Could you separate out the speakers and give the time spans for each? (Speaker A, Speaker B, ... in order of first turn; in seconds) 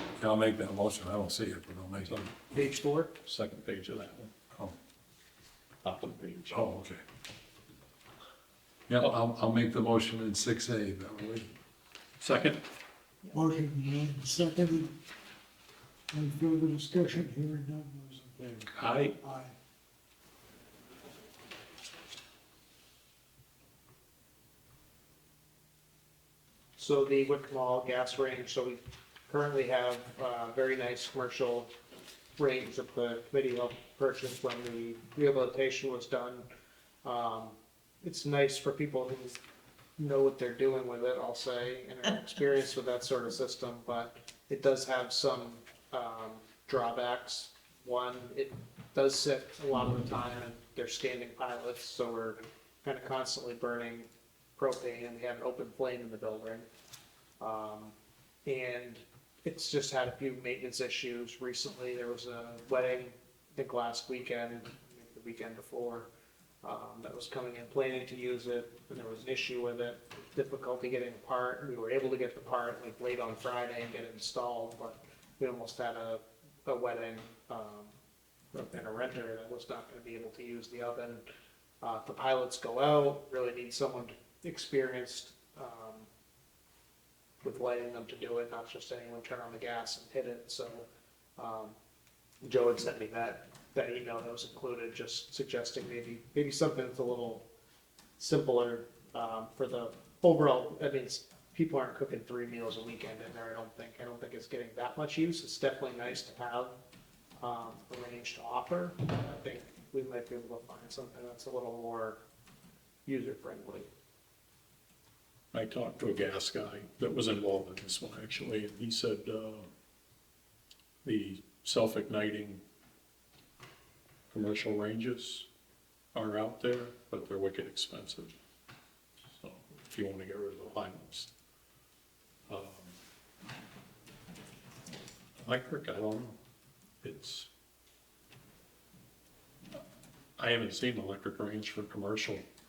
Speaker A: 0.2-2.3, 6.5-7.0, 8.9-11.5
Speaker B: 2.0-2.3, 3.2-4.3, 5.8-6.6, 12.2-12.6, 18.7-19.1, 115.5-119.7, 121.0-122.6, 124.3-125.5, 126.1-128.3, 129.3-131.3, 132.5-132.9, 135.4-136.3, 137.0-137.5, 140.4-142.4
Speaker C: 2.5-3.1, 26.8-31.7, 32.4-36.5, 37.0-39.4, 40.0-56.7, 57.4-57.9, 58.5-66.1, 66.6-77.9, 78.5-81.2, 81.8-86.1, 87.4-90.8, 91.4-91.8, 92.4-97.5, 98.2-106.8, 107.4-112.2, 113.0-113.9
Speaker D: 13.3-14.9, 16.1-18.7, 19.2-19.5